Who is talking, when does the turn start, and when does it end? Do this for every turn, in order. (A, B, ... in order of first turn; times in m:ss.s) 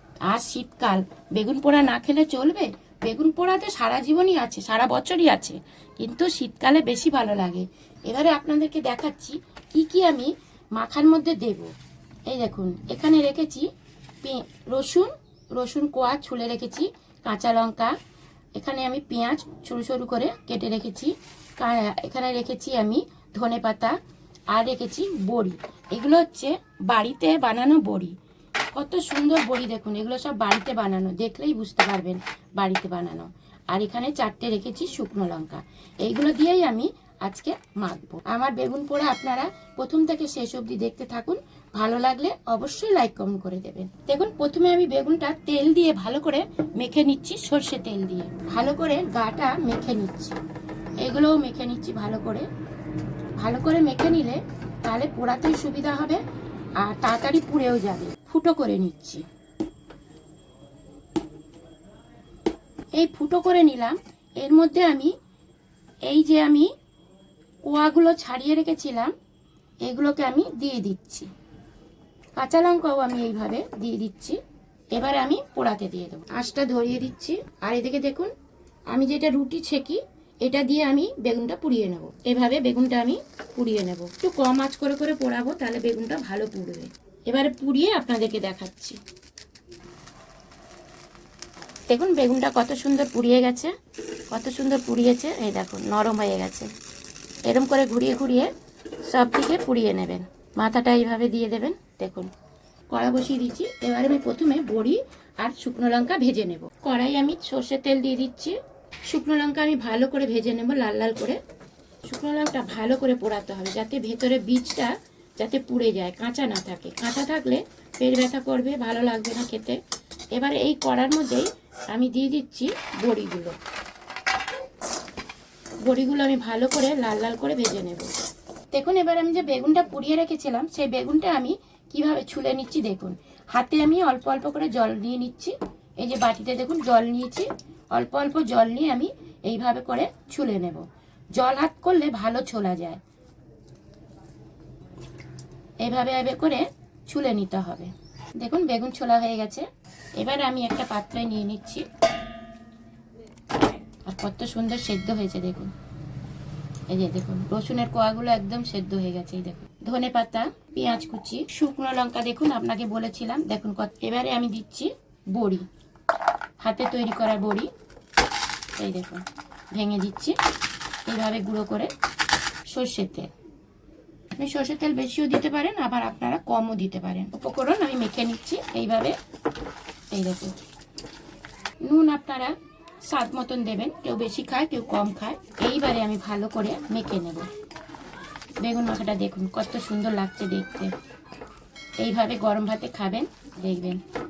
0:00.3-0:11.7 A
0:12.3-0:13.7 A
0:14.2-0:18.0 A
0:18.6-0:24.0 A
0:24.5-0:28.1 A
0:28.7-0:50.4 A
0:51.0-0:52.5 A
0:53.4-0:56.2 A
0:56.8-0:59.2 A
1:03.0-1:05.1 A
1:06.1-1:06.7 A
1:07.6-1:09.1 A
1:09.8-1:11.3 A
1:12.4-1:14.4 A
1:14.9-1:18.3 A
1:18.9-1:29.0 A
1:31.9-1:33.7 A
1:34.3-1:36.7 A
1:37.4-1:38.5 A
1:39.0-1:42.3 A
1:42.9-1:51.4 A
1:52.0-1:59.8 A
2:00.3-2:03.6 A
2:05.8-2:08.1 A
2:08.7-2:20.8 A
2:21.4-2:23.0 A
2:25.8-2:29.7 A
2:30.2-2:31.8 A
2:34.0-2:35.7 A
2:36.9-2:45.6 A
2:46.6-2:47.7 A
2:48.8-2:50.4 A
2:51.1-2:51.9 A
2:52.7-2:53.3 A
2:54.4-2:59.2 A
3:00.1-3:00.5 A
3:01.8-3:02.5 A
3:03.0-3:07.5 A
3:08.6-3:10.9 A
3:12.0-3:14.0 A